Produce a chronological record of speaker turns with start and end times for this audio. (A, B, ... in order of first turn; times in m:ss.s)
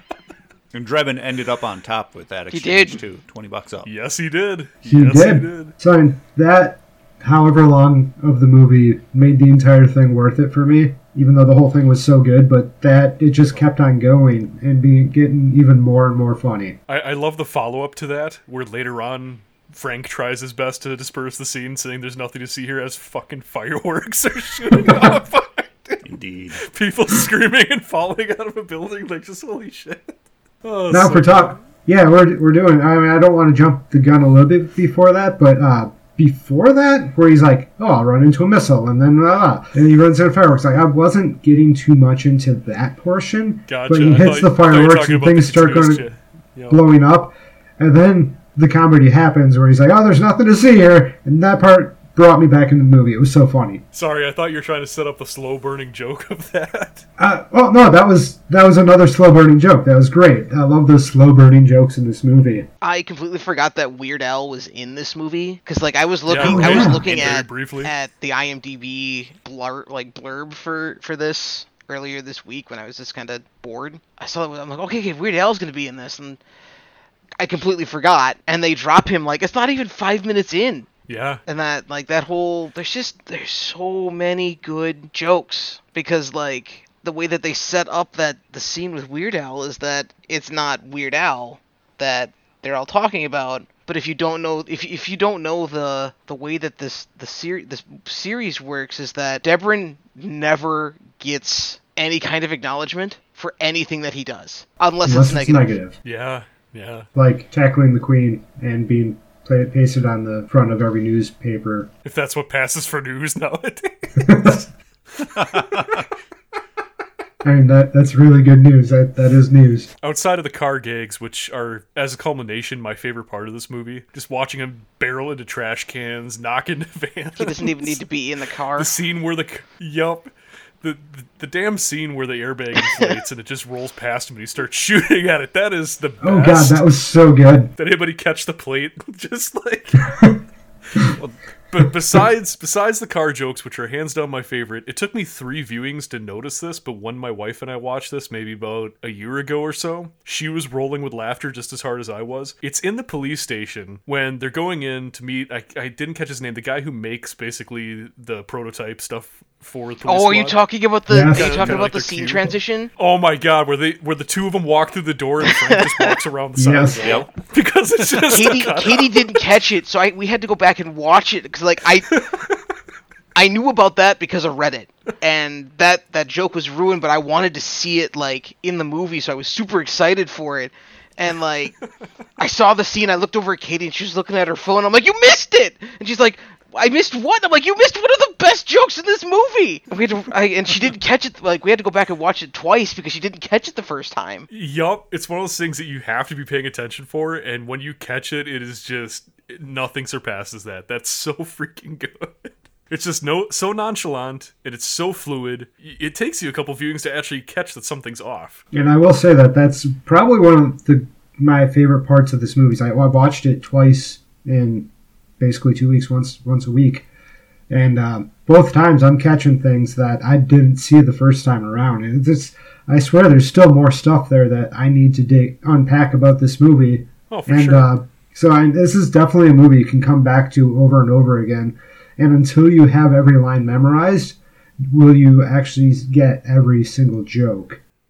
0:00.7-0:03.9 A
0:02.5-0:03.0 B
0:03.8-0:05.8 C
0:04.8-0:16.8 D
0:16.9-0:31.6 C
0:26.0-0:26.6 A
0:30.9-0:46.1 D
0:43.7-0:46.8 C
0:46.7-0:53.8 D
0:53.9-0:57.0 C
0:57.2-1:02.7 D
1:02.8-1:16.4 B
1:06.3-1:07.9 C
1:06.4-1:07.0 D
1:17.4-1:20.9 B
1:21.1-1:21.4 C
1:21.5-1:45.7 B
1:45.0-1:46.0 D
1:46.0-1:47.1 C
1:47.2-1:51.9 D
1:52.0-1:54.6 C
1:54.2-1:54.7 D
1:55.2-1:56.0 C
1:55.3-1:56.0 A
1:57.4-1:59.9 D
2:00.0-2:08.0 C
2:07.4-2:08.9 B
2:08.8-2:10.3 C
2:10.8-2:16.8 C
2:16.2-2:17.7 D
2:17.8-2:20.2 C
2:21.7-2:40.6 C
2:40.0-2:42.9 B
2:41.1-2:41.9 D
2:41.3-2:49.3 C
2:45.5-2:46.2 B
2:46.6-2:47.2 D
2:47.0-2:47.3 A
2:48.3-2:52.2 B
2:52.1-2:52.6 C
2:53.4-3:01.8 B
3:02.4-3:14.5 B
3:14.5-3:28.6 C
3:28.7-3:37.1 D
3:37.7-3:54.4 D
3:47.3-3:47.9 C
3:54.9-3:57.8 D